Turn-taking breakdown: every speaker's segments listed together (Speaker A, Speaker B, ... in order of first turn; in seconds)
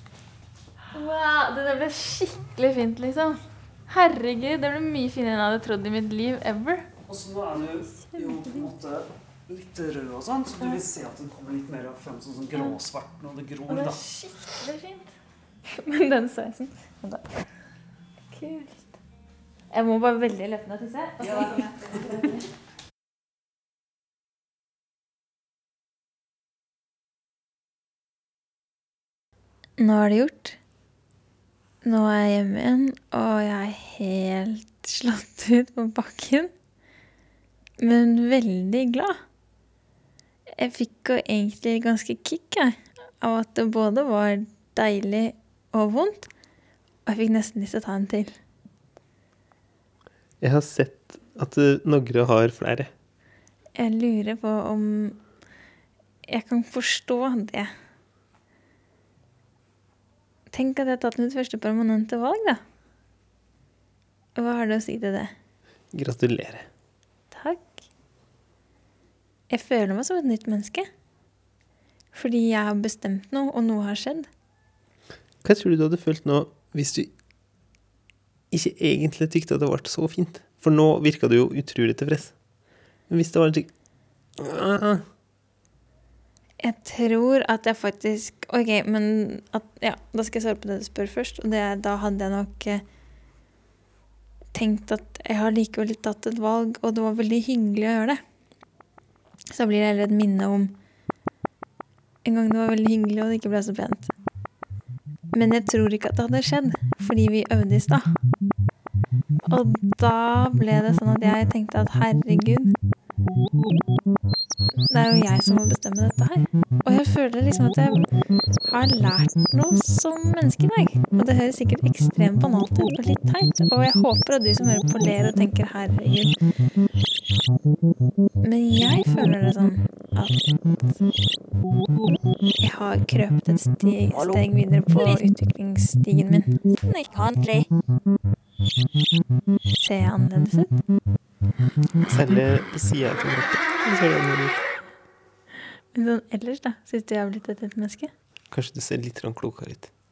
Speaker A: 0.9-6.8, 13.7-15.1, 15.7-17.4, 18.3-19.0, 19.7-22.4, 29.8-30.6, 31.8-36.5, 37.8-39.2, 40.5-46.3, 47.0-48.3, 53.8-55.2, 56.3-57.7, 60.5-62.6, 64.3-65.3, 67.3-67.7, 69.5-70.9, 72.1-74.3, 86.6-92.8, 94.5-98.2, 99.5-100.7, 102.2-104.1, 105.3-108.2, 109.5-112.7, 114.9-118.1, 118.6-126.3, 128.4-130.6, 132.6-137.6, 139.8-140.7, 145.9-148.1
Speaker B: 7.1-14.0, 21.2-22.1
Speaker C: 50.4-52.9, 65.9-66.7, 75.4-77.1, 78.5-82.4, 83.1-83.7, 84.4-85.0, 142.1-144.6, 148.5-149.9